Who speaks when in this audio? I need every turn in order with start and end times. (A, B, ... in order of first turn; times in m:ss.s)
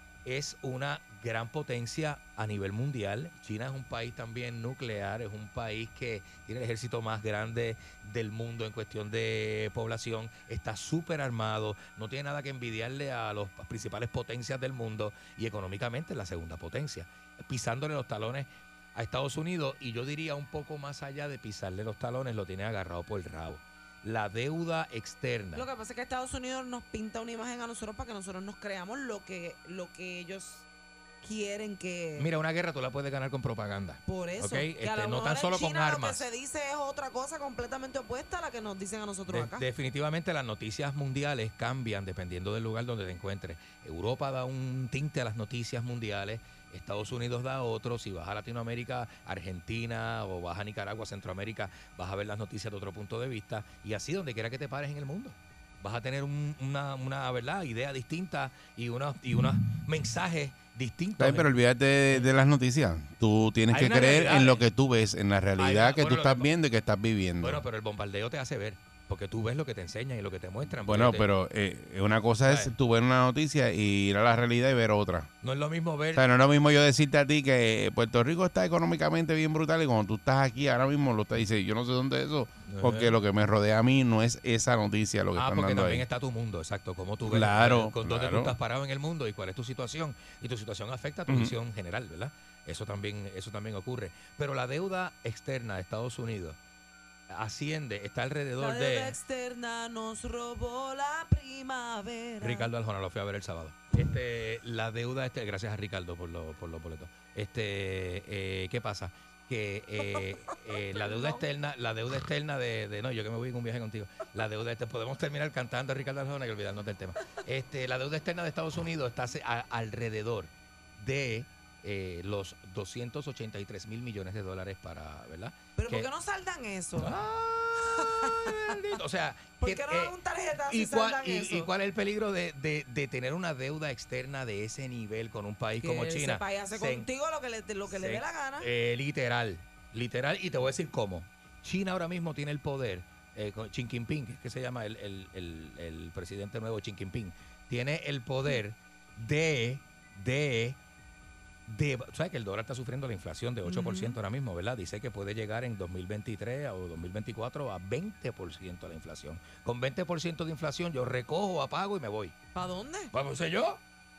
0:00.3-0:25.6 A
0:25.6-0:30.7 B
0:31.2-0:32.3 B
0:32.2-0:36.2 A
0:34.1-0:39.6 B
0:39.3-1:01.5 A
1:01.2-1:07.6 C
1:03.7-1:04.6 A
1:05.6-1:06.5 A
1:07.4-1:11.3 A
1:10.8-1:15.3 C
1:12.5-1:12.7 A
1:15.4-1:16.2 A
1:16.2-1:26.0 C
1:22.7-1:23.2 A
1:25.4-1:36.6 A
1:27.2-1:28.6 C
1:31.3-1:31.5 C
1:37.3-1:39.2 A
1:38.6-1:42.7 B
1:42.4-2:06.1 A
1:51.0-1:51.4 B
2:05.8-2:07.1 B
2:07.0-2:10.2 A
2:08.0-2:08.5 B
2:09.6-2:11.7 B
2:10.7-2:17.1 A
2:15.8-2:18.7 B
2:17.9-2:30.8 A
2:31.7-2:42.3 A
2:33.7-2:34.2 B
2:42.6-2:43.1 B
2:43.1-2:43.8 A